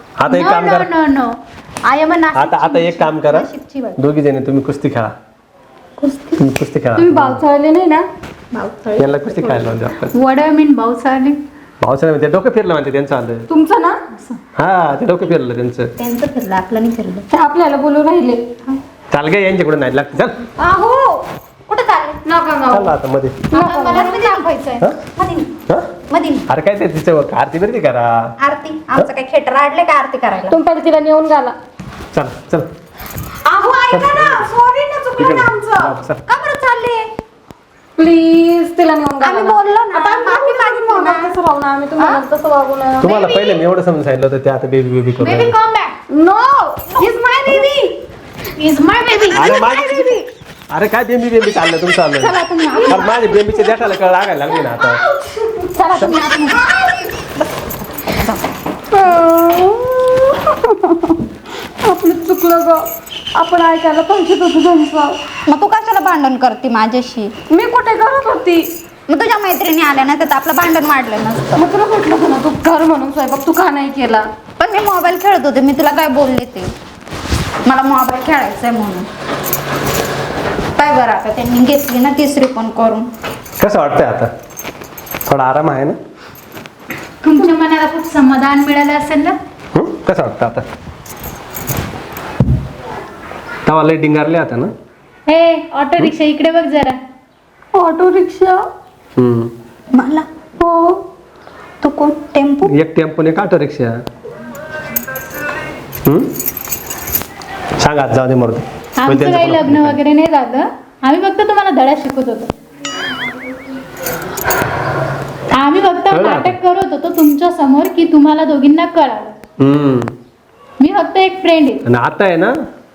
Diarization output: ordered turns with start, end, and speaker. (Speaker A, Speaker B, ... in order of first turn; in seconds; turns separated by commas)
Speaker A: 0.2-0.9, Speaker B: 0.3-3.1, Speaker A: 2.3-5.1, Speaker C: 3.2-4.0, Speaker C: 6.0-6.4, Speaker A: 6.4-7.4, Speaker D: 7.0-8.0, Speaker C: 8.5-9.6, Speaker A: 9.0-10.1, Speaker B: 10.1-11.4, Speaker A: 11.8-13.5, Speaker D: 13.5-14.0, Speaker A: 14.6-15.9, Speaker C: 16.0-17.2, Speaker D: 17.3-18.4, Speaker A: 19.1-20.4, Speaker D: 20.6-21.1, Speaker C: 21.7-22.2, Speaker D: 22.2-22.9, Speaker A: 22.7-23.5, Speaker D: 23.5-24.1, Speaker B: 23.5-24.8, Speaker C: 23.6-25.5, Speaker C: 26.1-26.4, Speaker A: 26.5-28.3, Speaker C: 28.4-30.6, Speaker D: 30.5-31.5, Speaker A: 32.1-32.7, Speaker D: 33.5-36.0, Speaker A: 33.9-34.5, Speaker A: 35.2-36.2, Speaker C: 36.2-37.1, Speaker D: 38.0-43.1, Speaker C: 39.2-41.4, Speaker B: 43.0-43.6, Speaker A: 43.0-45.5, Speaker B: 45.2-45.9, Speaker D: 46.1-47.9, Speaker B: 48.6-50.2, Speaker A: 49.3-55.0, Speaker C: 52.2-53.1, Speaker D: 54.6-55.7, Speaker C: 55.7-58.5, Speaker D: 58.9-61.2, Speaker D: 61.8-62.8, Speaker D: 63.3-65.2, Speaker C: 65.5-67.3, Speaker D: 67.5-68.7, Speaker C: 69.1-71.6, Speaker D: 71.5-74.3, Speaker C: 74.6-76.7, Speaker C: 77.6-79.1, Speaker C: 80.8-83.1, Speaker A: 83.6-84.3, Speaker A: 85.2-86.0, Speaker B: 87.2-89.4, Speaker A: 89.7-90.7, Speaker A: 93.6-94.7, Speaker B: 95.3-97.0, Speaker D: 97.7-98.7, Speaker A: 99.2-99.5, Speaker C: 99.9-100.3, Speaker D: 100.6-101.0, Speaker C: 101.8-102.7, Speaker A: 102.7-104.0, Speaker A: 106.0-106.3, Speaker A: 107.8-110.0, Speaker B: 109.0-112.5, Speaker B: 115.5-119.3, Speaker A: 116.1-116.6, Speaker A: 119.6-120.1, Speaker B: 120.8-121.8, Speaker A: 121.8-122.5